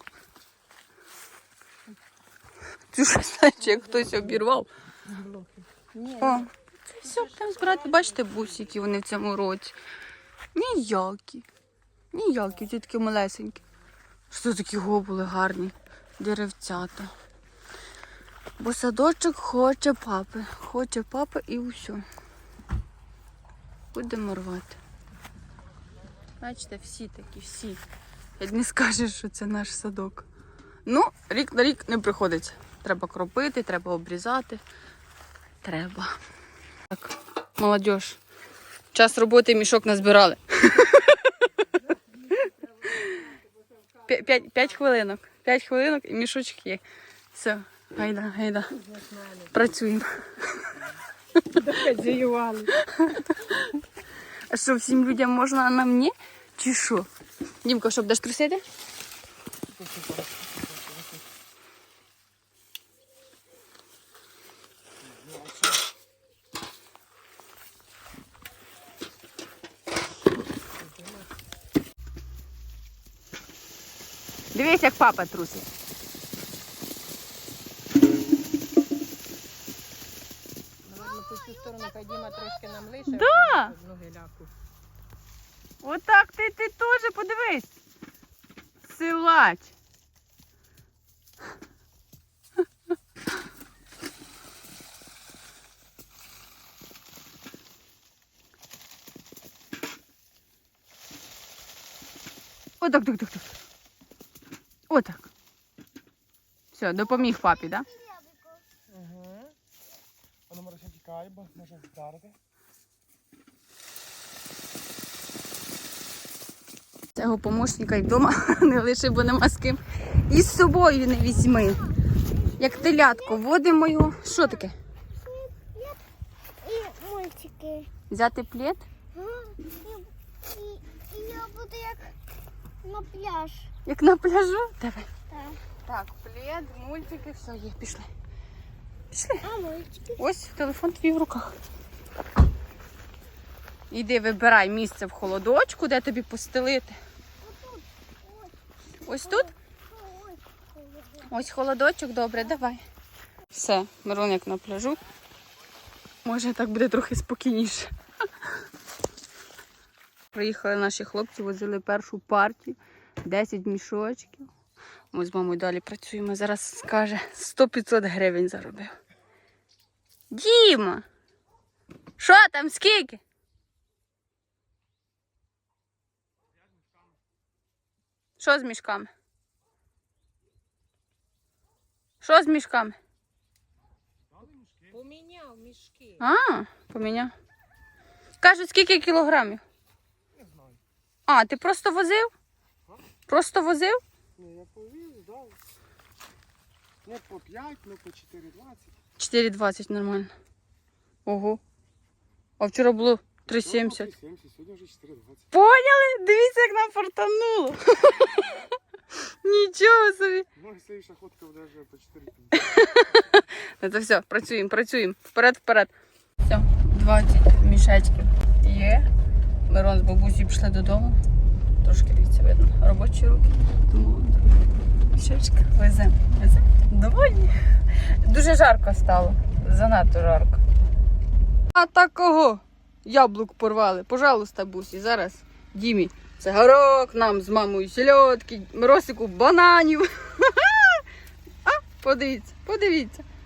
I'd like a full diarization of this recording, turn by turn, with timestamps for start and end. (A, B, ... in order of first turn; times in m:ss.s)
0:02.9-0:04.7 A
0:04.0-0:04.2 B
0:05.0-0:06.4 B
0:06.2-0:09.8 A
0:10.5-0:11.5 A
0:12.1-0:13.6 A
0:14.3-0:17.1 A
0:18.6-0:22.0 A
0:23.9-0:24.8 A
0:26.4-0:27.8 A
0:28.4-0:30.3 A
0:30.8-0:34.6 A
0:35.6-0:36.1 A
0:36.9-0:38.2 A
0:38.9-0:41.3 A
0:42.9-0:43.2 A
0:44.0-0:48.8 A
0:48.7-0:49.5 B
0:49.5-0:50.8 A
0:51.5-0:52.7 B
0:52.8-0:53.7 A
0:54.5-0:57.1 A
0:57.6-0:58.6 A
0:59.7-1:01.3 C
1:05.0-1:05.8 C
1:10.8-1:11.1 B
1:14.5-1:15.7 A
1:20.8-1:24.5 B
1:21.0-1:22.9 D
1:23.1-1:23.7 A
1:25.8-1:27.7 A
1:28.8-1:29.7 A
1:42.8-1:43.5 A
1:44.9-1:45.2 A
1:46.7-1:47.8 A
1:47.0-1:48.6 D
1:48.9-1:49.6 C
1:50.5-1:52.4 C
1:57.1-2:01.9 A
2:01.3-2:03.4 D
2:02.6-2:04.7 A
2:04.3-2:06.0 D
2:06.6-2:07.9 D
2:08.1-2:08.8 A
2:09.1-2:12.1 D
2:12.8-2:13.7 D
2:13.8-2:15.1 A
2:15.3-2:15.6 D
2:15.8-2:18.1 A
2:19.1-2:19.4 A
2:19.4-2:20.2 D
2:20.2-2:21.5 A
2:23.9-2:27.0 A
2:27.4-2:28.6 D
2:29.0-2:29.5 A
2:29.2-2:31.3 D
2:31.3-2:32.8 A
2:33.5-2:35.0 A
2:36.2-2:37.9 A
2:40.3-2:44.5 A
2:45.1-2:48.9 A
2:50.3-2:51.0 A
2:52.2-2:53.2 A
2:58.4-2:59.1 A
3:02.2-3:03.0 A
3:04.3-3:05.0 C
3:04.9-3:06.2 B
3:06.2-3:07.3 A
3:08.4-3:09.6 A
3:10.3-3:10.8 C
3:11.3-3:12.3 A
3:13.3-3:14.0 A
3:14.4-3:15.6 C
3:17.0-3:19.0 C
3:19.2-3:20.3 A
3:21.2-3:21.6 A
3:22.6-3:24.1 A
3:23.5-3:25.5 C
3:25.5-3:28.5 A
3:29.4-3:30.5 A
3:30.6-3:32.9 C
3:32.7-3:39.1 A
3:39.7-3:41.2 A
3:41.8-3:44.5 A
3:45.1-3:50.6 A
3:51.7-4:01.0 A
4:01.6-4:03.2 A